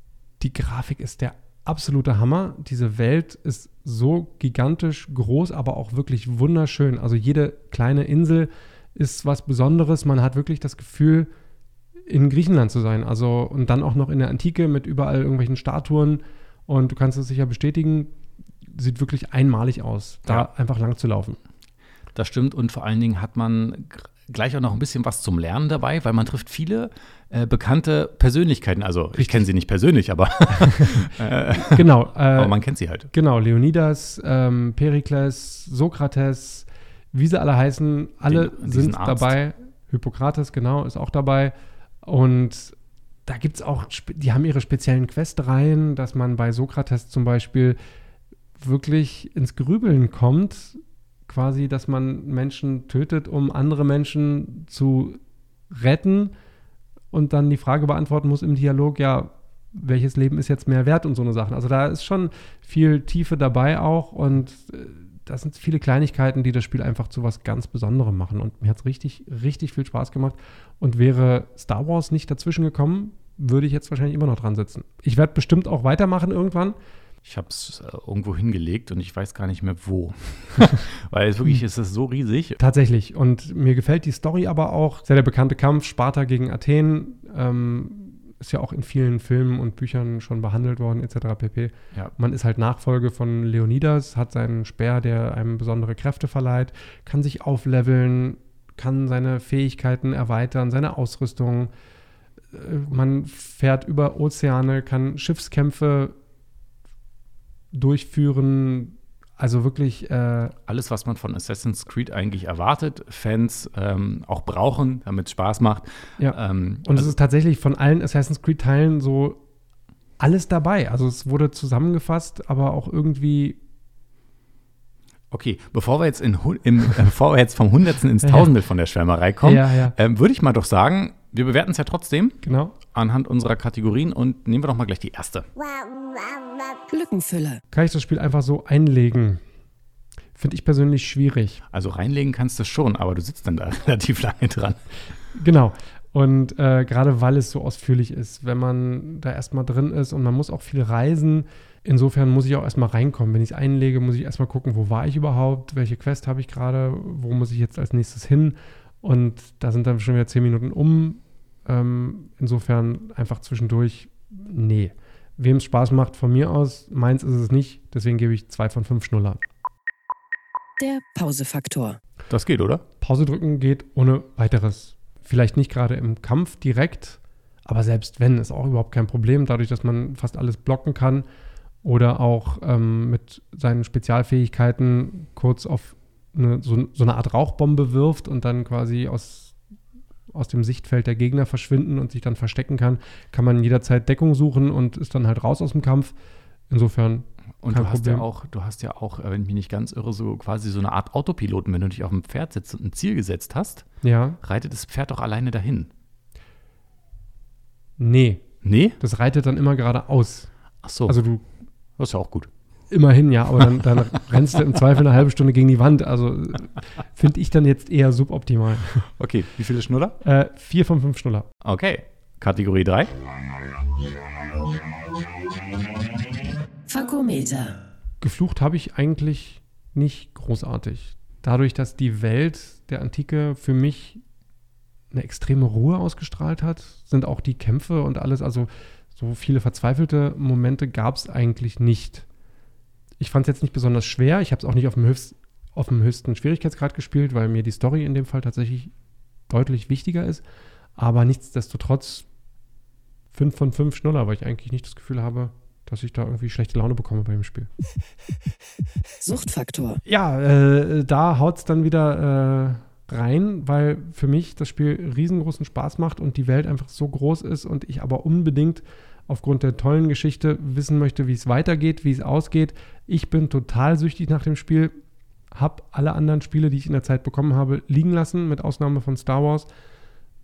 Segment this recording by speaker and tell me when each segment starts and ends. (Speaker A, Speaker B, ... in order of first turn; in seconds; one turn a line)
Speaker A: 0.4-11.3
Speaker A: 12.1-18.1
Speaker A: 18.7-21.4
Speaker B: 22.1-33.1
Speaker A: 29.2-29.4
Speaker A: 30.6-32.5
Speaker A: 33.1-42.7
Speaker B: 38.3-39.3
Speaker A: 43.2-47.8
Speaker A: 48.6-55.2
Speaker A: 55.7-56.3
Speaker A: 57.1-76.8
Speaker B: 77.2-82.6
Speaker A: 82.6-101.7
Speaker A: 102.5-106.1
Speaker A: 107.7-110.5
Speaker B: 110.7-117.1
Speaker A: 116.2-119.4
Speaker A: 120.2-123.6
Speaker B: 125.3-132.4
Speaker A: 128.2-128.5
Speaker A: 129.4-129.9
Speaker A: 132.4-132.8
Speaker B: 132.9-135.5
Speaker C: 136.9-137.6
Speaker A: 137.7-139.4
Speaker A: 140.3-141.6
Speaker B: 141.7-144.8
Speaker A: 145.3-169.4
Speaker C: 170.8-172.0
Speaker B: 172.3-172.8
Speaker A: 173.0-181.2
Speaker A: 181.8-189.6
Speaker A: 190.3-196.1
Speaker A: 196.7-198.2
Speaker B: 197.6-203.8
Speaker A: 204.0-204.4
Speaker B: 204.4-205.9
Speaker A: 208.0-208.4
Speaker B: 208.6-209.0
Speaker A: 209.0-210.5
Speaker B: 210.8-211.2
Speaker A: 211.1-211.4
Speaker B: 212.0-212.5
Speaker A: 212.9-219.1
Speaker B: 219.2-220.2
Speaker A: 220.2-221.5
Speaker B: 221.6-223.1
Speaker C: 226.9-227.8
Speaker A: 228.2-234.2
Speaker A: 235.1-242.2
Speaker A: 243.2-248.9
Speaker A: 249.5-250.4
Speaker A: 251.0-252.2
Speaker A: 253.3-257.7
Speaker C: 259.2-260.0
Speaker A: 260.1-274.9
Speaker A: 275.5-279.7